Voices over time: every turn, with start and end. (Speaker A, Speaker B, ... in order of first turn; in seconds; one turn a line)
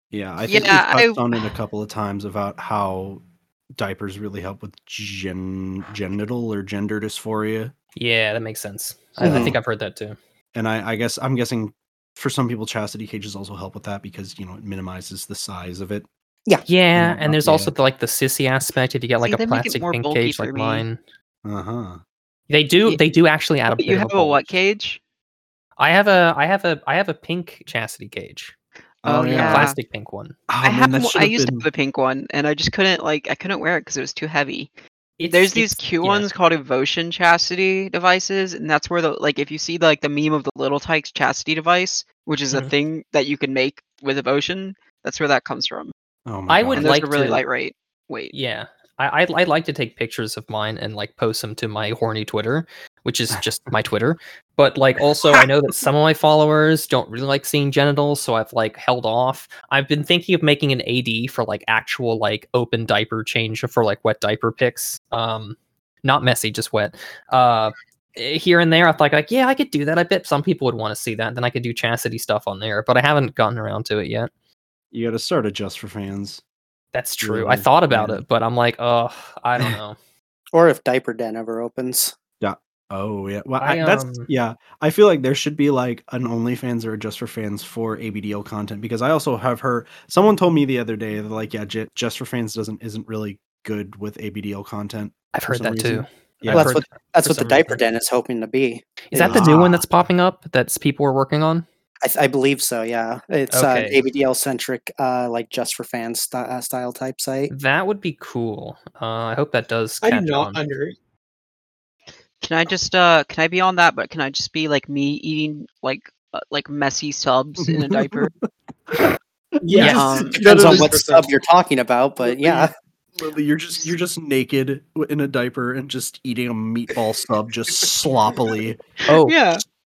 Speaker A: 0.1-3.2
Speaker B: 0.5-1.5
Speaker A: 3.8-7.7
Speaker C: 8.0-10.2
Speaker D: 9.2-9.6
Speaker A: 9.2-9.6
Speaker A: 10.5-16.1
Speaker C: 16.7-21.0
Speaker A: 16.9-17.7
Speaker B: 19.2-20.8
Speaker A: 21.4-22.0
Speaker C: 22.5-24.5
Speaker B: 23.8-25.0
Speaker C: 25.8-28.5
Speaker A: 29.0-29.7
Speaker B: 29.1-29.8
Speaker C: 29.3-30.4
Speaker A: 30.5-31.6
Speaker B: 30.6-34.7
Speaker C: 35.2-36.3
Speaker B: 35.3-45.9
Speaker A: 46.3-46.9
Speaker C: 46.5-47.4
Speaker B: 46.7-48.3
Speaker C: 48.3-74.3
Speaker A: 74.9-76.4
Speaker C: 76.9-80.0
Speaker A: 77.2-78.2
Speaker D: 80.5-82.1
Speaker A: 82.4-96.8
Speaker C: 83.6-84.3
Speaker C: 95.3-97.8
Speaker D: 96.5-99.5
Speaker C: 99.1-101.6
Speaker A: 99.2-99.9
Speaker D: 102.0-107.5
Speaker C: 103.5-104.0
Speaker C: 107.5-110.6
Speaker E: 110.0-111.0
Speaker B: 112.4-118.3
Speaker A: 117.6-118.3
Speaker A: 119.6-121.0
Speaker E: 119.6-121.3
Speaker B: 119.8-120.4
Speaker D: 120.4-122.7
Speaker A: 122.2-128.8
Speaker C: 129.1-129.4
Speaker B: 129.3-129.6